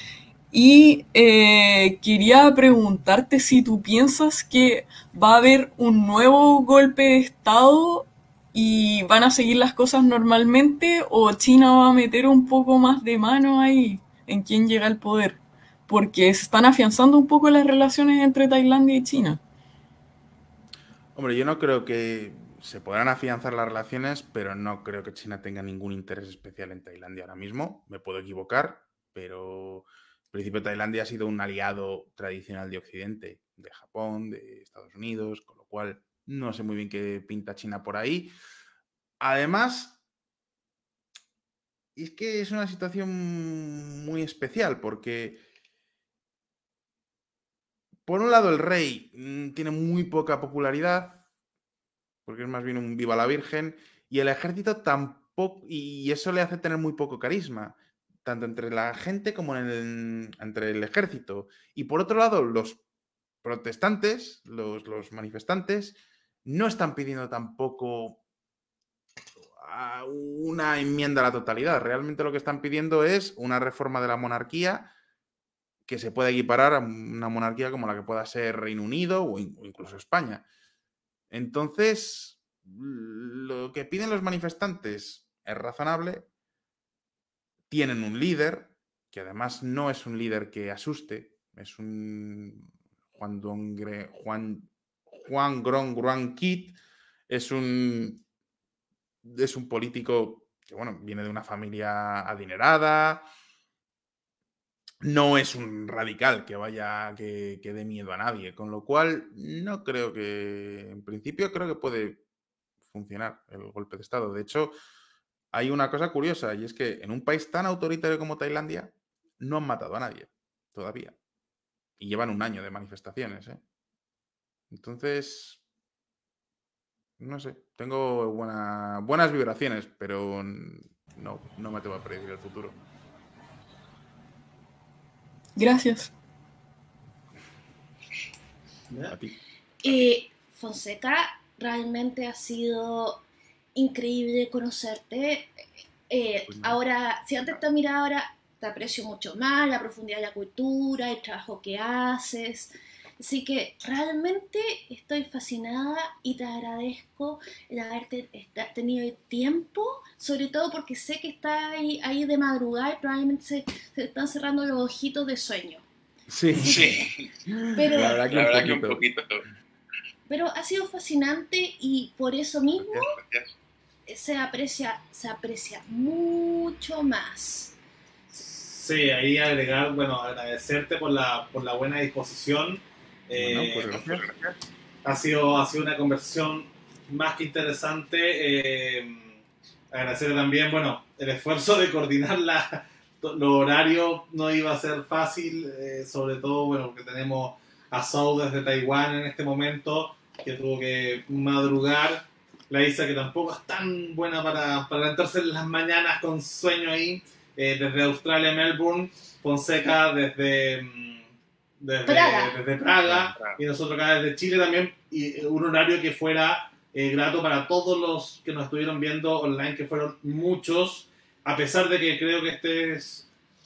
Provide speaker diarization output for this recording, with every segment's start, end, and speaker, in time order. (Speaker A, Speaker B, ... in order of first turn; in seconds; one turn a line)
Speaker A: 0.5-19.4
Speaker B: 21.1-38.3
Speaker B: 39.2-40.0
Speaker B: 42.0-45.4
Speaker B: 48.1-51.2
Speaker B: 52.2-62.8
Speaker B: 63.4-68.2
Speaker B: 69.6-74.9
Speaker B: 75.9-80.4
Speaker B: 81.3-86.3
Speaker B: 87.7-96.8
Speaker B: 97.3-98.2
Speaker B: 99.2-103.2
Speaker B: 105.0-112.2
Speaker B: 112.9-114.7
Speaker B: 115.5-121.2
Speaker B: 122.0-123.6
Speaker B: 124.7-125.6
Speaker B: 127.2-132.8
Speaker A: 135.6-136.1
Speaker C: 138.9-139.2
Speaker B: 139.1-139.4
Speaker D: 139.8-143.2
Speaker D: 143.7-145.5
Speaker D: 146.1-165.8
Speaker B: 146.5-146.8
Speaker B: 166.3-169.0
Speaker E: 166.5-167.3
Speaker D: 167.7-168.2
Speaker E: 167.9-169.4
Speaker D: 170.3-173.2
Speaker E: 172.8-173.5
Speaker D: 174.1-177.8
Speaker C: 178.3-183.9
Speaker B: 183.3-184.2
Speaker E: 183.9-184.5
Speaker C: 185.0-189.4
Speaker C: 189.9-211.3
Speaker C: 211.8-223.3
Speaker D: 212.1-212.5
Speaker E: 213.1-213.6